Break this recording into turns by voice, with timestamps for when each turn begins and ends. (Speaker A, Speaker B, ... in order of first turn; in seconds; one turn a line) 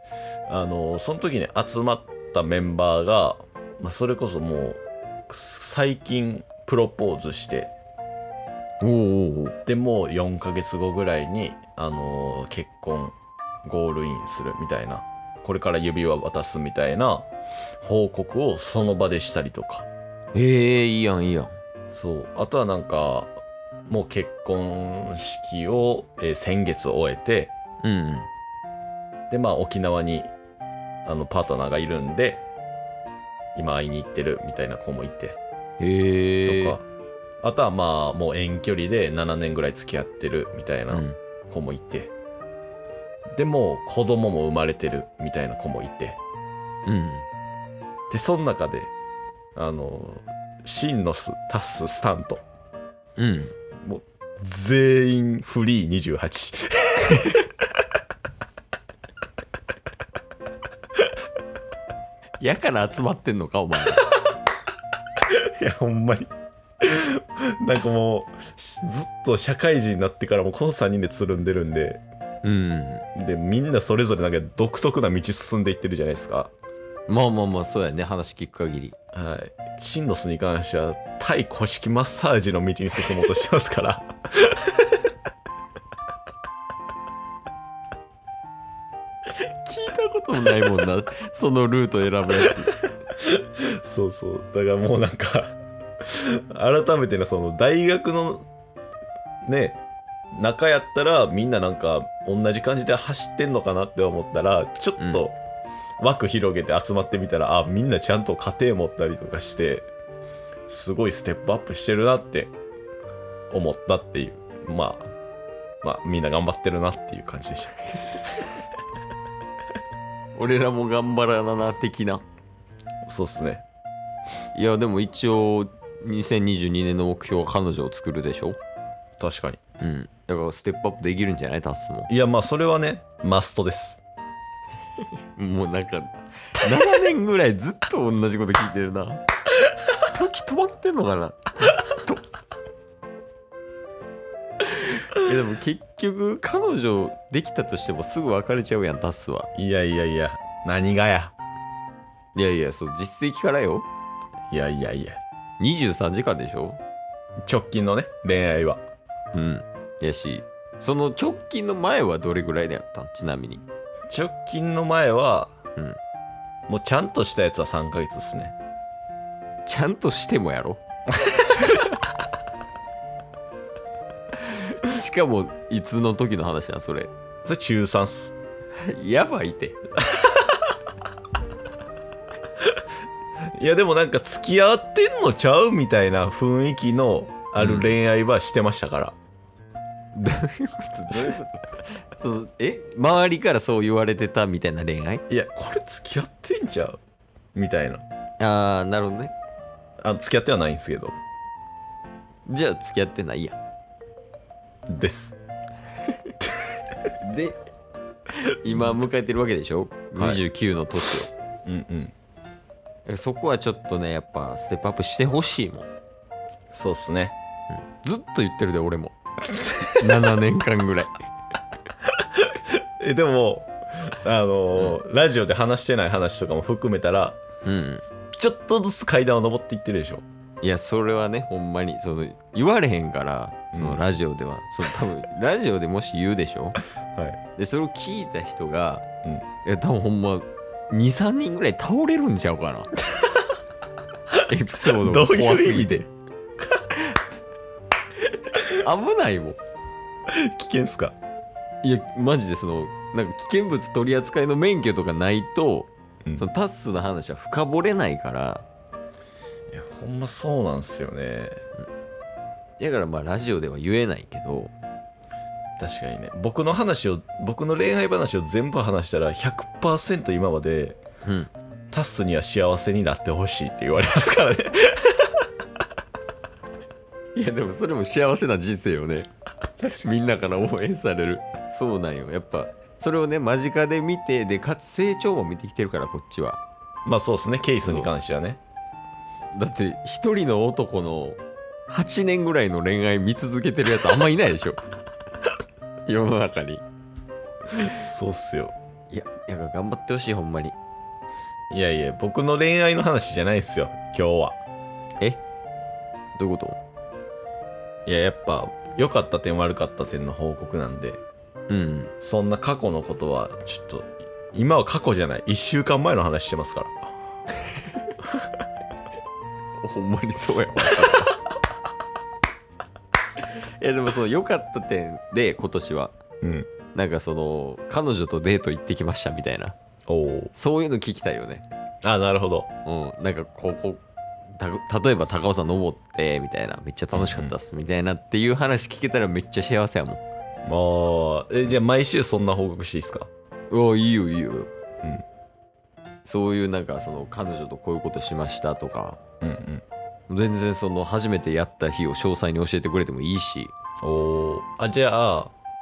Speaker A: 0.5-7.7
Speaker B: 8.8-9.6
Speaker A: 9.7-17.3
Speaker A: 17.8-19.9
Speaker B: 20.3-21.5
Speaker A: 21.9-27.5
Speaker B: 27.8-28.3
Speaker A: 29.3-30.3
Speaker A: 31.1-32.4
Speaker A: 33.5-35.4
Speaker B: 35.8-36.8
Speaker A: 36.4-36.9
Speaker A: 37.4-42.1
Speaker B: 40.9-41.2
Speaker A: 43.3-46.2
Speaker B: 46.9-47.2
Speaker A: 48.1-48.9
Speaker A: 49.6-52.4
Speaker B: 53.2-53.5
Speaker A: 53.8-57.4
Speaker B: 62.4-64.0
Speaker A: 65.3-66.3
Speaker A: 66.8-72.0
Speaker B: 72.4-73.0
Speaker A: 73.1-76.5
Speaker B: 77.1-79.0
Speaker A: 79.1-84.8
Speaker B: 89.4-92.8
Speaker A: 93.2-98.5
Speaker A: 99.4-99.8
Speaker A: 100.3-105.4
Speaker B: 105.0-105.2
Speaker A: 106.0-109.9
Speaker A: 110.7-112.5
Speaker A: 113.5-115.1
Speaker A: 115.8-117.7
Speaker B: 120.3-122.2
Speaker A: 123.1-123.6
Speaker B: 124.5-128.6
Speaker A: 129.2-129.6
Speaker B: 129.8-132.1
Speaker A: 132.1-134.0
Speaker B: 135.3-139.2
Speaker B: 140.1-142.2
Speaker B: 144.6-149.5
Speaker A: 149.6-151.3
Speaker B: 152.3-153.9
Speaker A: 154.5-155.2
Speaker B: 155.6-156.8
Speaker A: 157.4-158.8
Speaker B: 159.3-163.6
Speaker A: 164.1-165.5
Speaker A: 166.7-168.6
Speaker B: 169.7-170.8
Speaker B: 174.4-177.1
Speaker A: 177.4-178.3
Speaker B: 178.8-179.8
Speaker A: 183.6-189.2
Speaker B: 187.6-187.9
Speaker B: 190.1-191.6
Speaker B: 192.1-195.2
Speaker A: 195.3-197.0
Speaker A: 197.5-198.0
Speaker B: 198.4-199.3
Speaker A: 200.0-201.2
Speaker B: 202.5-203.6
Speaker A: 204.9-205.4
Speaker A: 206.4-206.7
Speaker B: 207.2-207.6
Speaker B: 208.4-211.3
Speaker A: 210.2-210.4
Speaker A: 211.6-212.1
Speaker B: 213.0-215.9
Speaker A: 216.7-217.4
Speaker B: 217.7-219.1
Speaker A: 219.8-220.2
Speaker B: 220.0-221.1
Speaker A: 222.4-227.4
Speaker B: 224.8-225.0
Speaker B: 227.6-228.0
Speaker A: 228.3-230.2
Speaker B: 230.6-236.8
Speaker A: 233.7-234.0
Speaker B: 237.6-239.1
Speaker B: 239.6-242.9
Speaker B: 244.5-246.1
Speaker A: 245.0-246.1
Speaker B: 248.5-249.6
Speaker A: 250.3-251.1
Speaker B: 251.8-258.6
Speaker A: 259.7-261.6
Speaker B: 262.8-264.7
Speaker A: 265.8-271.0
Speaker B: 271.2-271.5
Speaker A: 271.9-275.3
Speaker B: 277.4-286.6
Speaker A: 287.0-288.6
Speaker B: 287.8-288.1
Speaker B: 289.5-294.8
Speaker B: 296.1-296.8
Speaker A: 297.8-298.7
Speaker B: 299.1-300.8
Speaker A: 301.7-304.6
Speaker B: 306.4-306.8
Speaker A: 308.1-311.2
Speaker B: 311.7-312.1
Speaker A: 312.2-317.1
Speaker B: 319.8-321.3
Speaker B: 323.4-326.1
Speaker A: 326.4-326.7
Speaker B: 326.9-329.8
Speaker A: 330.1-330.5
Speaker B: 330.5-331.6
Speaker A: 332.0-332.7
Speaker B: 332.9-334.0
Speaker B: 334.5-340.2
Speaker A: 337.1-337.5
Speaker A: 340.6-343.3
Speaker B: 343.7-344.7
Speaker B: 346.2-349.2
Speaker A: 349.4-349.8
Speaker B: 350.3-353.7
Speaker A: 354.0-355.5